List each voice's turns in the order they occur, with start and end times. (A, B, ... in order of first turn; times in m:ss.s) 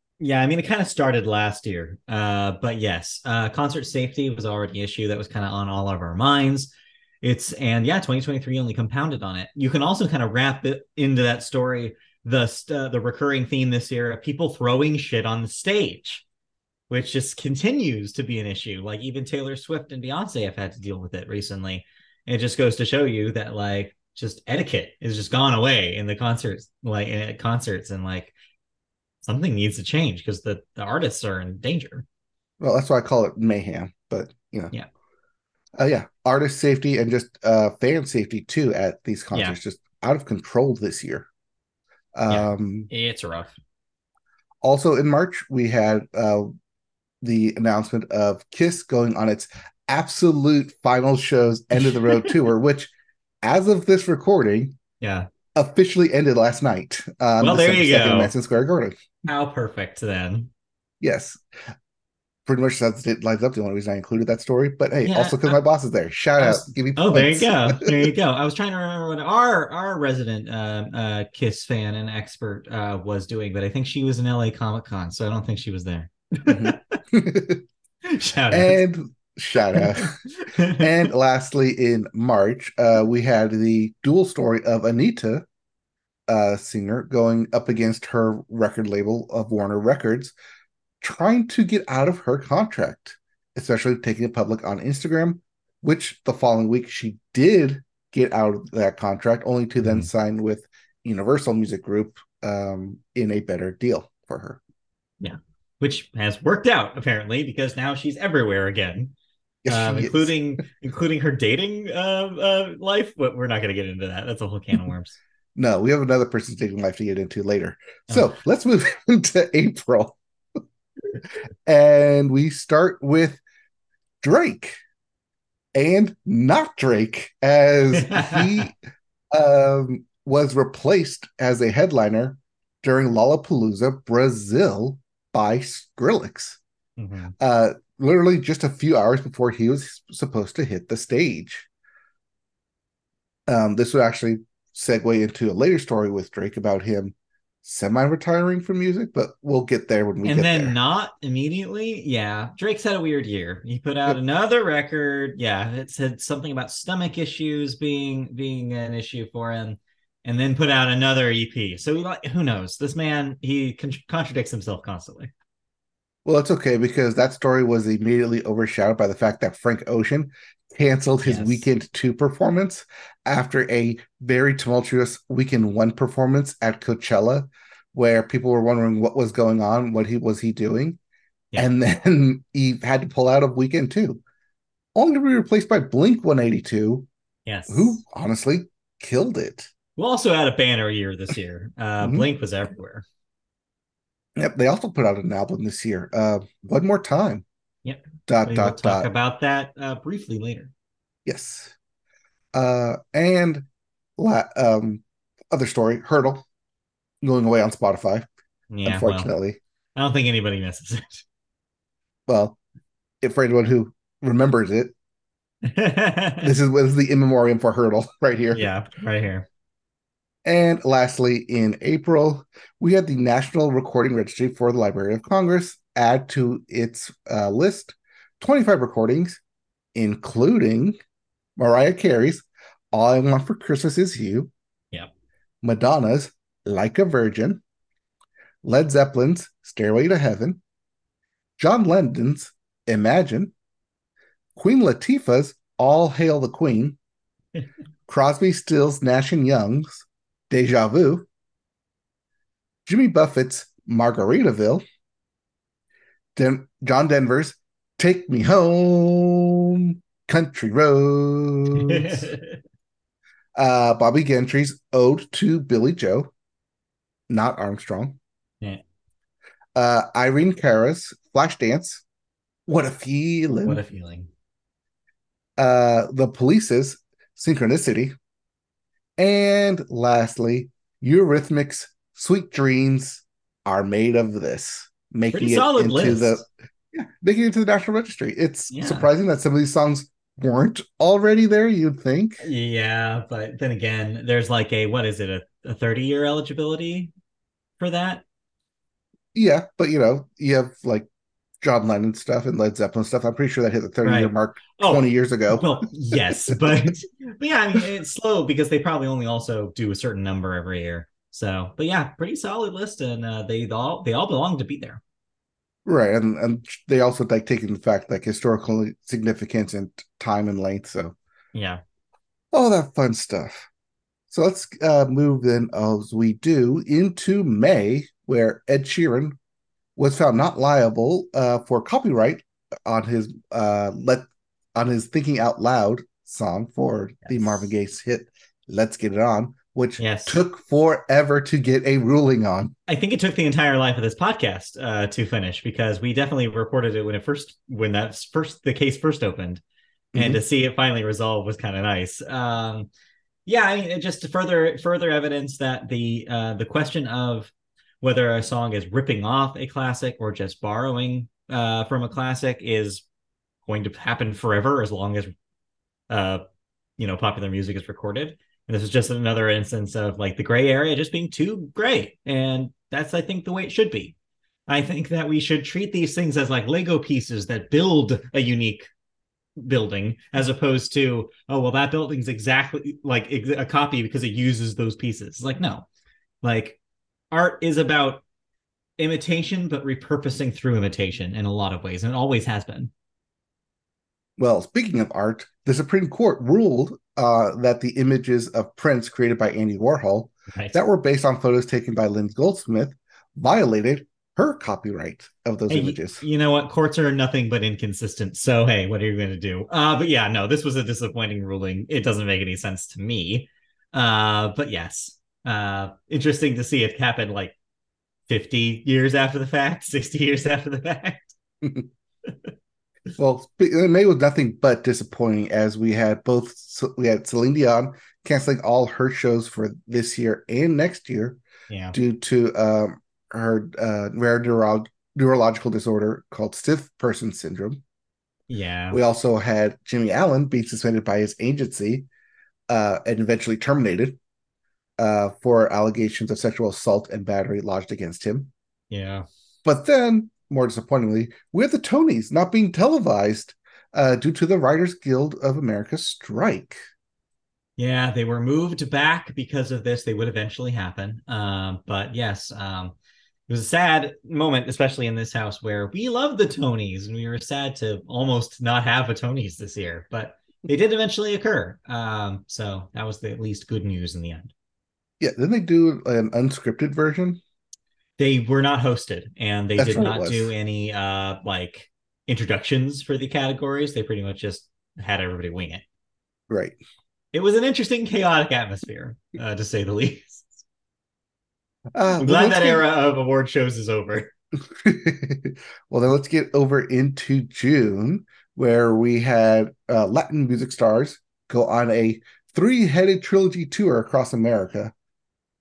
0:00.2-0:16.2 A
0:16.9-0:28.3 A
0:29.2-0:32.0 A
0:32.6-0:34.7 B
0:35.8-0:41.3 B
0:42.2-0:42.9 B
0:42.3-0:43.5 A
0:44.6-0:46.5 B
0:47.2-0:52.9 B
0:51.8-0:52.4 A
0:53.4-0:54.7 B
0:55.0-0:55.3 A
0:55.5-0:59.0 B
0:57.4-0:58.3 A
0:59.3-1:00.5 A
1:01.0-1:01.4 B
1:02.4-1:08.1 B
1:05.0-1:05.6 A
1:06.4-1:17.0 A
1:16.4-1:17.6 B
1:18.0-1:18.8 A
1:18.5-1:20.2 B
1:19.8-1:21.0 A
1:20.7-1:25.4 B
1:26.3-1:30.3 B
1:31.0-1:44.6 B
1:45.2-1:49.1 A
1:49.6-1:50.3 B
1:49.7-1:55.2 A
1:55.6-2:00.2 B
2:01.6-2:03.4 B
2:04.2-2:04.8 B
2:05.7-2:08.8 B
2:07.9-2:08.7 A
2:09.3-2:16.6 B
2:17.0-2:17.3 A
2:17.4-2:21.7 B
2:23.5-2:30.7 B
2:30.2-2:45.3 A
2:46.2-3:01.0 B
2:51.2-2:51.6 A
3:01.5-3:04.2 B
3:04.9-3:07.1 B
3:07.4-3:08.0 A
3:07.7-3:09.7 B
3:10.0-3:13.0 A
3:12.0-3:12.2 B
3:14.4-3:17.4 B
3:17.8-3:20.7 A
3:18.3-3:19.1 B
3:21.2-3:21.7 B
3:22.5-3:23.6 B
3:24.2-3:26.4 B
3:27.2-3:28.3 B
3:28.7-3:29.3 A
3:28.8-3:29.6 B
3:30.0-3:31.2 A
3:32.3-3:32.6 B
3:33.2-3:34.9 B
3:35.6-3:36.5 A
3:36.4-3:38.6 B
3:38.5-3:39.4 A
3:40.4-3:49.4 B
3:49.9-3:51.0 B
3:51.6-3:54.5 B
3:55.6-3:57.6 B
3:58.6-4:00.6 B
4:01.6-4:03.5 B
4:04.6-4:07.0 B
4:08.1-4:11.3 B
4:12.8-4:14.8 B
4:16.4-4:22.3 B
4:21.7-4:22.6 A
4:23.6-4:26.3 B
4:27.3-4:28.2 B
4:29.8-4:32.0 B
4:32.7-4:33.8 B
4:33.6-4:34.3 A
4:35.6-4:38.1 B
4:39.2-4:52.4 B
4:45.3-4:46.4 A
4:48.7-4:49.1 A
4:52.4-4:57.1 A
4:57.8-4:58.2 A
4:59.3-5:01.1 B
5:01.6-5:06.9 B
5:04.0-5:15.0 A
5:15.8-5:21.2 B
5:21.5-5:21.8 A
5:22.5-5:23.7 B
5:24.3-5:29.4 B
5:30.0-5:42.7 B
5:37.2-5:37.6 A
5:40.0-5:40.4 A
5:42.9-5:49.6 A
5:50.1-5:50.4 B
5:50.1-5:52.9 A
5:53.4-6:03.0 A
6:03.6-6:05.3 A
6:06.1-6:06.4 A
6:07.0-6:14.1 A
6:14.7-6:18.9 A
6:19.6-6:25.8 A
6:26.4-6:26.8 A
6:27.3-6:28.2 A
6:29.0-6:32.9 A
6:34.4-6:46.2 B
6:40.5-6:40.8 A
6:45.7-6:57.5 A
6:58.3-7:01.3 A
7:03.2-7:11.4 B
7:11.7-7:12.0 A
7:11.9-7:17.8 B
7:18.5-7:19.0 A
7:18.9-7:22.1 B
7:22.7-7:24.2 B
7:25.0-7:28.5 B
7:28.9-7:29.2 A
7:29.6-7:36.8 B
7:37.8-7:42.9 A
7:43.5-7:54.5 A
7:55.2-7:57.4 B
7:58.2-8:05.8 A
7:59.8-8:00.5 B
8:06.5-8:06.8 B
8:07.3-8:10.6 A
8:11.9-8:12.8 B
8:12.2-8:14.3 A
8:14.7-8:24.9 B